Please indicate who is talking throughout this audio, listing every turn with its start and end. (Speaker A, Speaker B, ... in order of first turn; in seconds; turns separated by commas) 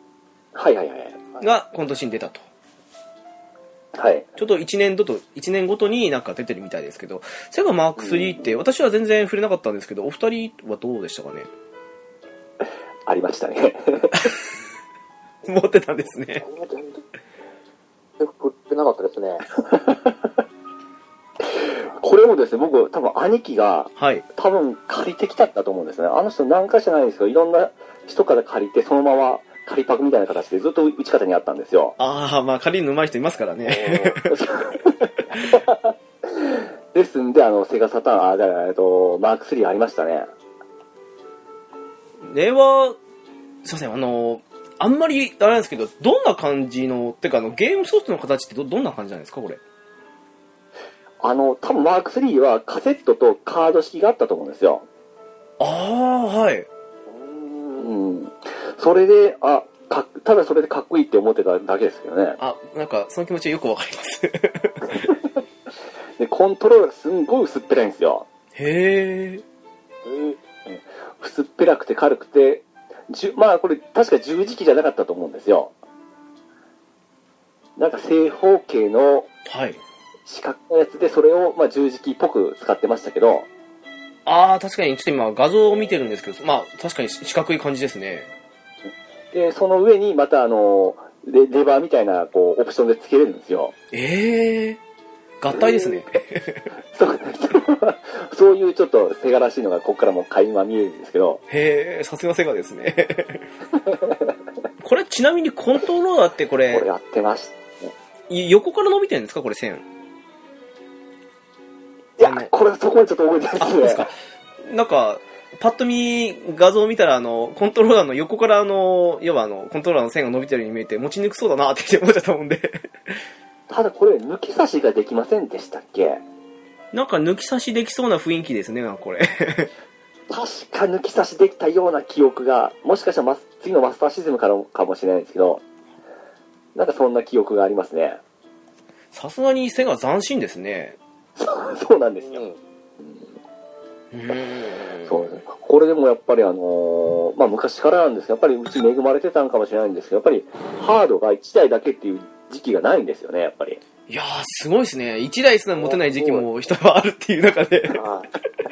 Speaker A: 0.5-1.4, Speaker B: 1.4-2.4, Speaker A: 4.0-4.3, Speaker B: 4.4-11.5, Speaker A: 8.0-8.5, Speaker A: 13.1-14.3, Speaker B: 15.4-16.4, Speaker C: 16.4-17.0, Speaker C: 18.2-19.5, Speaker A: 21.5-31.9, Speaker B: 24.0-24.2, Speaker B: 32.0-34.3, Speaker C: 33.7-34.2, Speaker A: 34.3-40.3, Speaker B: 42.2-43.0, Speaker B: 43.6-49.6, Speaker A: 51.2-54.9, Speaker B: 55.6-56.7, Speaker C: 57.1-57.9, Speaker A: 57.8-62.4, Speaker B: 62.4-65.1, Speaker A: 66.2-68.3, Speaker B: 68.6-69.4, Speaker C: 70.1-70.3, Speaker A: 70.7-75.7, Speaker A: 77.8-79.3, Speaker B: 79.5-79.8, Speaker A: 80.3-83.5, Speaker B: 84.3-88.3, Speaker A: 89.3-93.7, Speaker B: 93.9-94.8, Speaker B: 95.4-96.7, Speaker A: 95.6-95.9, Speaker A: 96.9-101.4, Speaker B: 101.5-103.5, Speaker A: 103.9-104.2, Speaker B: 104.8-106.9, Speaker A: 106.7-107.9, Speaker B: 108.3-109.8, Speaker A: 112.2-114.1, Speaker B: 112.2-112.5, Speaker B: 113.6-114.1, Speaker B: 114.7-122.9, Speaker A: 123.7-126.2, Speaker B: 126.9-129.7, Speaker A: 130.3-135.6, Speaker A: 136.8-138.2, Speaker B: 139.1-141.0, Speaker A: 141.4-142.4, Speaker C: 142.2-142.6, Speaker B: 144.1-145.4, Speaker A: 145.1-153.8, Speaker B: 154.1-158.0, Speaker C: 155.8-156.5, Speaker C: 157.9-158.3